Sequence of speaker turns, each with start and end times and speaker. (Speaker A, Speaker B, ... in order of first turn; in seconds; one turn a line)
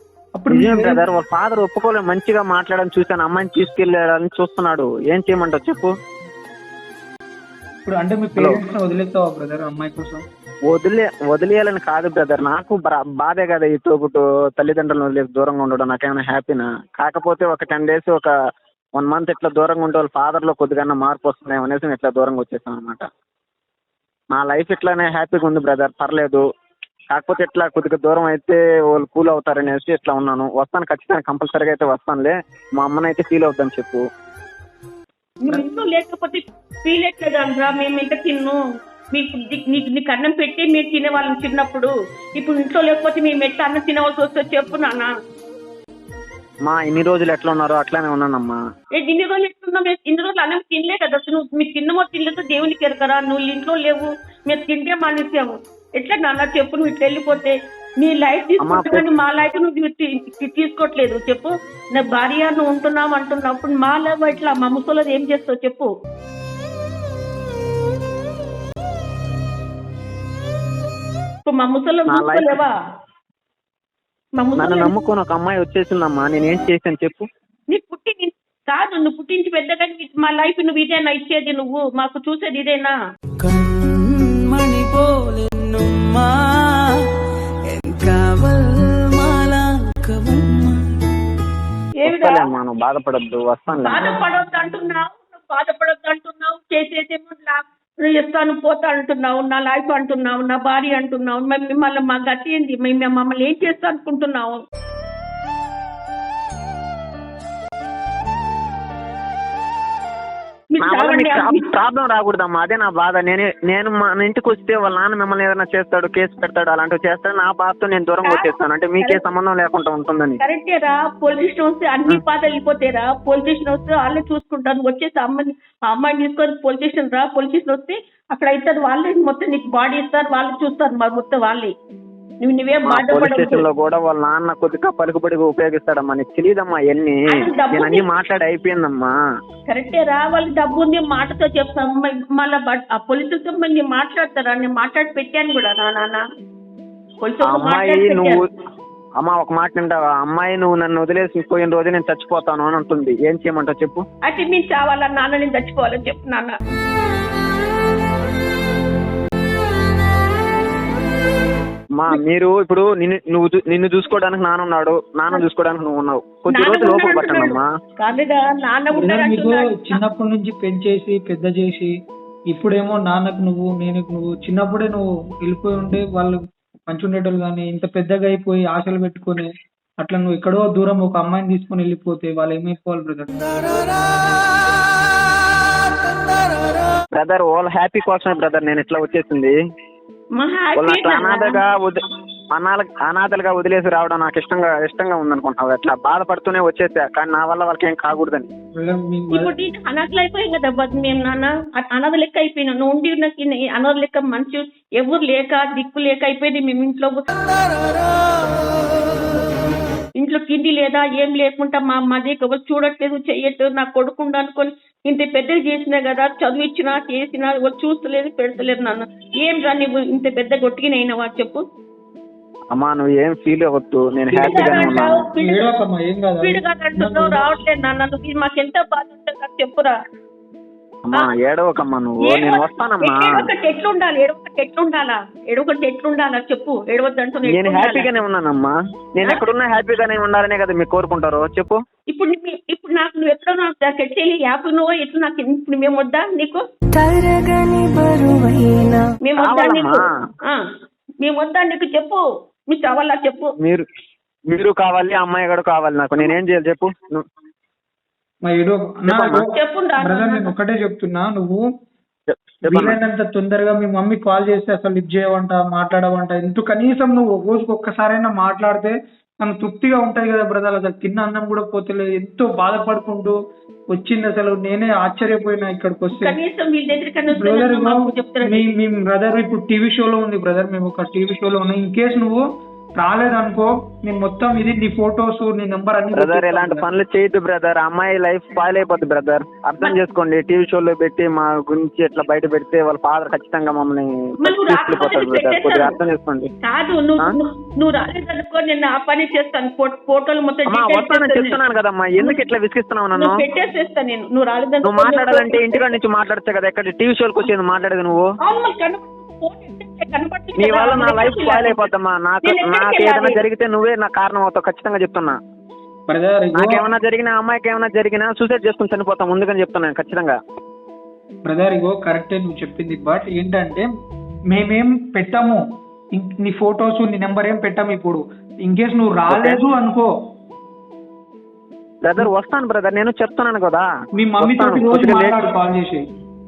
Speaker A: 0.3-1.0
Speaker B: 0.5-5.9
Speaker A: 7.8-10.2
Speaker B: 8.4-8.6
Speaker B: 10.7-18.3
Speaker B: 19.0-23.1
Speaker B: 24.3-26.4
Speaker B: 27.1-34.0
Speaker C: 35.4-38.6
Speaker C: 39.1-45.1
Speaker B: 46.6-48.5
Speaker C: 49.0-65.9
Speaker B: 58.6-59.1
Speaker C: 71.5-72.7
Speaker B: 72.1-72.6
Speaker C: 74.4-74.9
Speaker B: 74.5-77.3
Speaker C: 77.7-82.9
Speaker D: 83.4-86.8
Speaker D: 87.7-90.8
Speaker C: 92.0-92.5
Speaker B: 92.0-94.1
Speaker C: 93.8-104.6
Speaker C: 110.7-111.6
Speaker B: 110.8-120.4
Speaker C: 118.2-119.2
Speaker C: 120.4-131.7
Speaker C: 132.4-133.6
Speaker B: 132.8-139.1
Speaker C: 137.3-138.0
Speaker C: 139.7-146.2
Speaker C: 147.2-148.4
Speaker B: 147.4-148.4
Speaker B: 149.2-154.0
Speaker C: 154.2-156.6
Speaker B: 162.0-167.7
Speaker C: 166.5-170.0
Speaker A: 168.9-171.9
Speaker A: 172.5-179.5
Speaker A: 180.0-183.3
Speaker B: 187.1-189.5
Speaker C: 190.4-191.6
Speaker B: 190.8-192.0
Speaker B: 192.5-198.5
Speaker A: 198.8-199.5
Speaker C: 199.3-207.2
Speaker C: 210.2-221.6
Speaker B: 222.7-225.2
Speaker A: 224.3-224.7
Speaker C: 224.4-225.7
Speaker A: 225.4-227.4
Speaker C: 226.4-229.9
Speaker B: 231.0-233.3
Speaker C: 232.2-238.1
Speaker B: 237.5-241.8
Speaker C: 242.1-246.6
Speaker D: 246.9-249.1
Speaker C: 249.2-250.6
Speaker B: 249.4-250.0
Speaker C: 251.2-253.5
Speaker B: 254.5-257.2
Speaker A: 258.4-261.6
Speaker B: 259.1-259.5
Speaker C: 259.5-260.5
Speaker B: 262.3-263.0
Speaker A: 262.7-273.4
Speaker A: 273.9-276.4
Speaker C: 276.1-278.7
Speaker A: 277.3-282.4
Speaker A: 283.0-286.9
Speaker B: 286.1-296.5
Speaker C: 294.4-295.9
Speaker C: 296.6-301.6
Speaker B: 300.7-303.4
Speaker C: 303.1-305.9
Speaker B: 304.8-308.3
Speaker C: 308.4-311.9
Speaker B: 310.6-315.4
Speaker C: 312.4-313.4
Speaker A: 316.1-316.8
Speaker B: 316.5-320.4
Speaker A: 321.4-323.9
Speaker A: 324.5-325.6
Speaker A: 326.1-330.1
Speaker B: 329.3-329.6
Speaker B: 332.0-333.9
Speaker A: 334.2-336.0
Speaker B: 334.4-335.4